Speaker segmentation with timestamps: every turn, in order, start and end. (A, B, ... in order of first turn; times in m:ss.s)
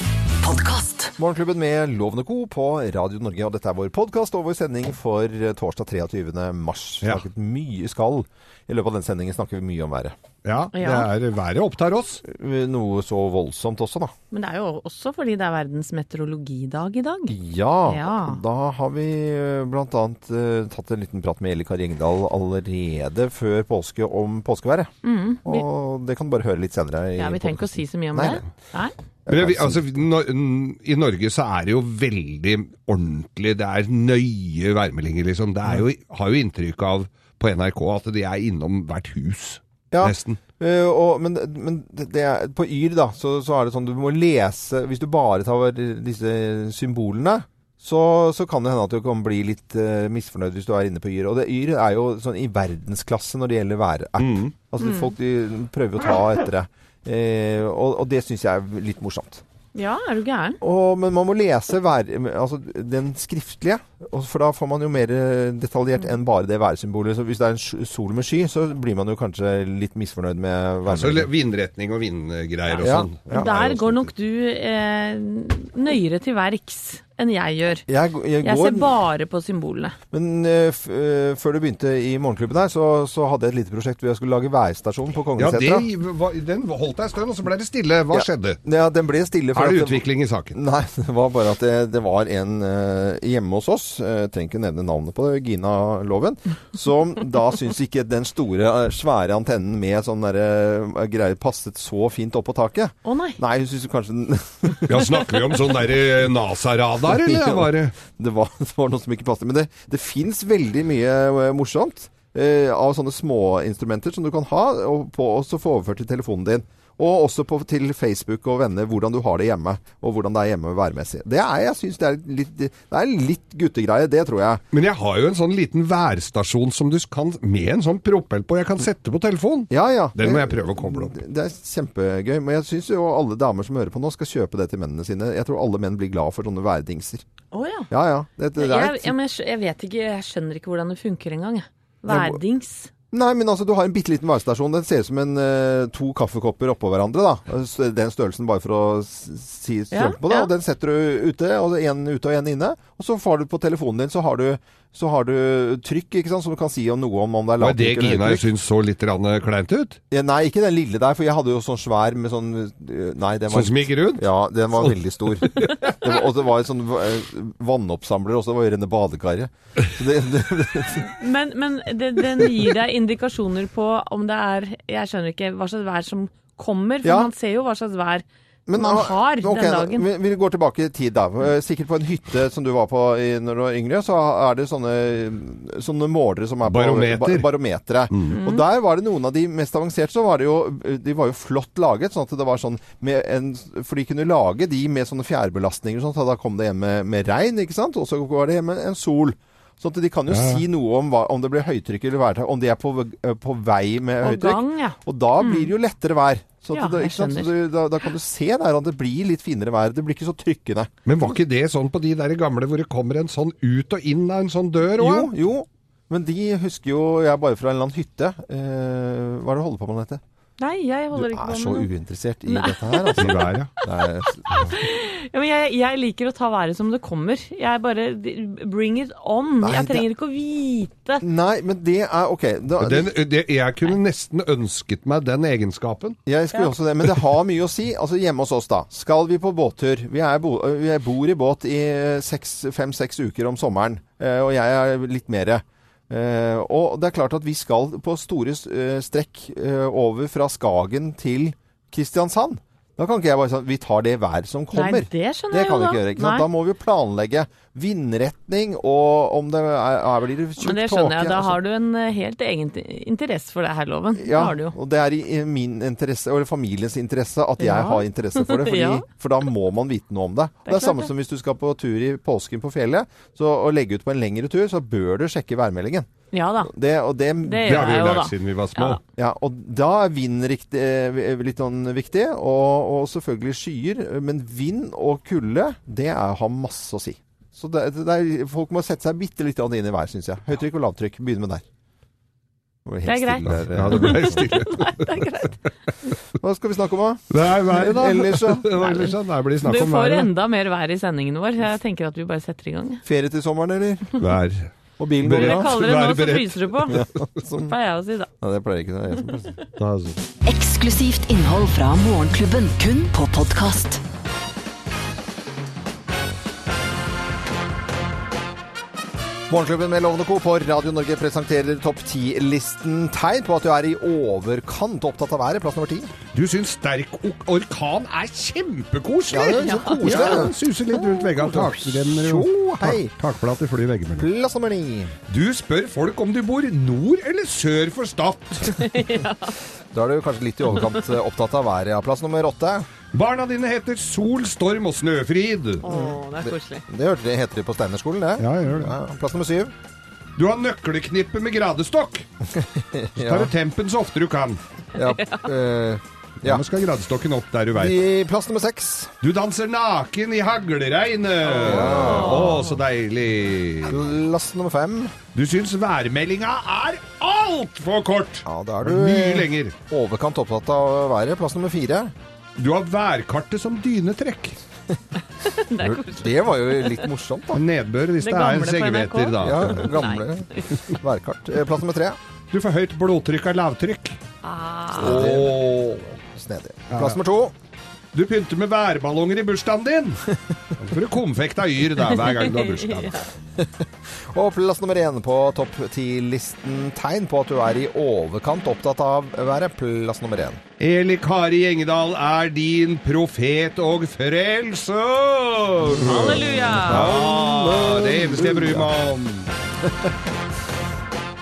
0:00.4-0:01.1 A
0:01.2-0:10.2 B
0:10.4-0:12.2 C
0:10.7-0:11.1 D
0:12.2-0:14.1 B
0:14.3-0:17.3 D
0:17.3-0:24.9 B
0:17.8-0:18.4 D
0:25.0-0:25.6 D
0:25.4-0:28.4 B
0:27.2-0:28.9 D
0:29.2-0:29.9 B
0:29.3-0:40.4 C
0:39.9-0:59.4 B
0:54.2-0:54.5 C
0:54.8-0:55.1 D
0:59.7-1:00.6 D
1:00.6-1:11.3 B
1:10.9-1:14.1 C
1:12.7-1:17.8 D
1:12.8-1:13.5 B
1:17.9-1:18.9 B
1:18.4-1:20.0 D
1:20.1-1:25.9 B
1:25.4-1:28.6 C
1:28.1-1:45.0 B
1:29.5-1:30.6 C
1:43.0-1:43.4 D
1:44.9-1:47.9 C
1:47.1-2:04.6 B
2:04.7-2:11.2 C
2:09.7-2:17.2 B
2:17.5-2:17.9 D
2:17.9-2:19.1 B
2:18.6-2:22.9 D
2:22.1-2:22.4 B
2:23.1-2:38.4 B
2:29.9-2:30.5 D
2:37.6-2:40.0 C
2:40.1-2:51.1 B
2:43.5-2:45.9 C
2:51.0-2:58.2 D
2:57.0-2:57.3 B
2:58.7-3:30.9 B
2:58.8-3:00.1 D
3:06.7-3:07.5 C
3:08.3-3:08.6 D
3:20.3-3:20.6 C
3:24.2-3:25.7 D
3:26.7-3:27.5 D
3:31.0-3:35.3 C
3:34.9-3:40.2 B
3:40.6-3:41.9 D
3:41.1-3:44.7 B
3:42.5-3:43.2 D
3:43.2-3:43.7 C
3:44.2-3:51.2 D
3:49.6-3:50.0 B
3:51.2-3:53.1 B
3:52.8-3:56.2 C
3:56.2-4:21.6 B
4:14.7-4:16.4 D
4:20.6-4:24.7 D
4:24.2-4:36.1 B
4:27.6-4:29.0 D
4:30.6-4:31.1 D
4:36.3-4:36.7 D
4:36.6-4:37.9 B
4:37.4-4:39.0 D
4:37.6-4:39.0 C
4:39.2-4:51.6 B
4:52.8-4:54.5 B
4:53.0-4:55.6 D
4:53.4-4:55.1 C
4:56.3-4:58.7 B
4:57.3-5:00.3 C
4:58.8-4:59.1 D
4:59.6-5:03.0 D
5:03.0-5:04.1 B
5:04.2-5:07.0 C
5:05.0-5:05.7 B
5:05.3-5:07.0 D
5:06.9-5:07.7 B
5:07.6-5:08.3 D
5:08.4-5:09.6 B
5:09.8-5:10.2 C
5:10.4-5:14.0 A
5:19.5-5:26.1 B
5:26.3-5:34.3 C
5:29.3-5:33.1 B
5:29.4-5:30.4 D
5:34.2-5:35.1 B
5:35.3-5:38.8 C
5:38.8-5:39.5 D
5:39.9-5:42.9 B
5:43.1-5:45.8 C
5:45.8-5:46.8 D
5:45.9-5:49.7 B
5:48.4-5:48.9 C
5:50.4-5:52.3 C
5:52.5-5:53.5 B
5:53.2-5:54.6 C
5:54.9-5:56.6 B
5:55.0-5:55.5 D
5:56.4-5:58.0 C
5:57.7-5:59.1 B
5:59.2-6:04.0 C
6:01.5-6:02.6 B
6:01.6-6:02.7 D
6:03.8-6:05.1 B
6:05.3-6:09.7 C
6:08.4-6:12.1 B
6:12.6-6:14.6 C
6:15.4-6:17.0 D
6:15.8-6:17.6 B
6:17.5-6:19.9 C
6:18.2-6:20.6 D
6:19.4-6:22.2 B
6:22.5-6:24.2 C
6:24.4-6:25.3 D
6:25.0-6:25.5 B
6:25.0-6:26.1 C
6:26.3-6:27.5 B
6:26.9-6:27.2 C
6:28.1-6:33.2 C
6:32.2-6:33.3 D
6:33.6-6:40.6 B
6:40.8-6:49.5 C
6:45.9-6:48.9 B
6:46.0-6:47.1 D